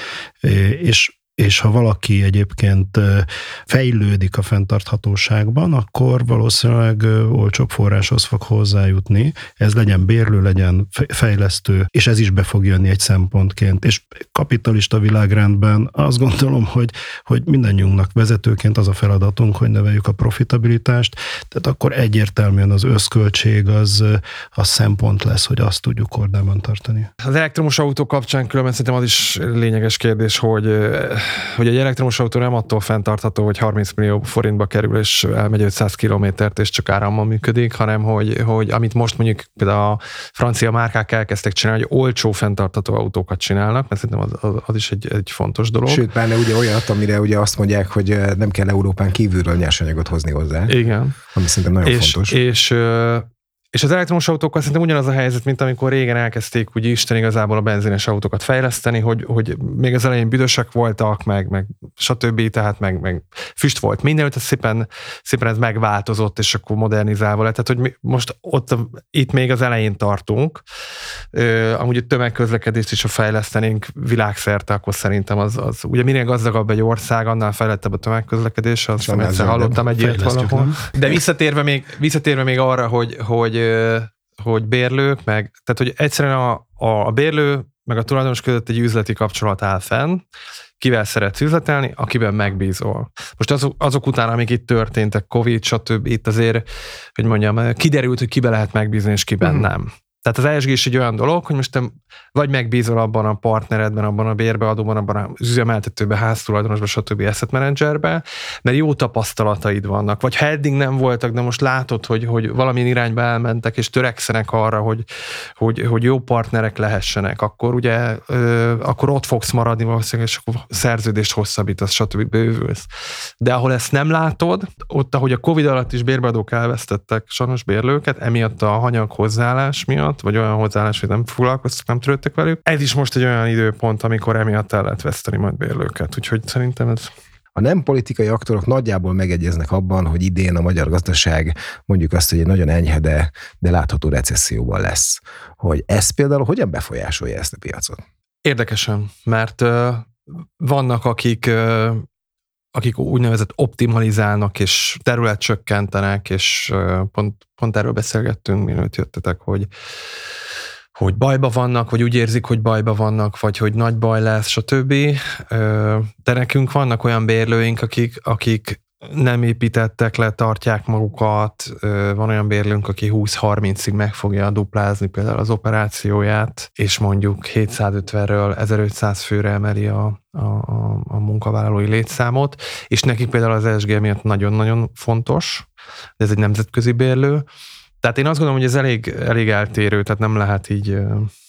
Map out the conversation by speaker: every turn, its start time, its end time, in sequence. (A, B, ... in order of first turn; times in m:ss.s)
0:00.4-0:27.1 A
0:27.2-0:46.0 B
0:45.9-0:50.8 C
0:50.7-0:51.2 B
0:51.3-0:52.4 C
0:51.8-1:10.6 B
1:11.3-1:30.2 B
1:19.0-1:19.8 C
1:20.0-1:20.8 A
1:30.8-1:36.7 B
1:37.2-2:02.9 B
2:03.4-2:17.1 B
2:17.6-2:28.0 C
2:28.4-2:32.0 B
2:32.7-2:39.7 B
2:41.0-3:05.7 B
3:06.2-3:07.5 B
3:08.0-3:11.3 B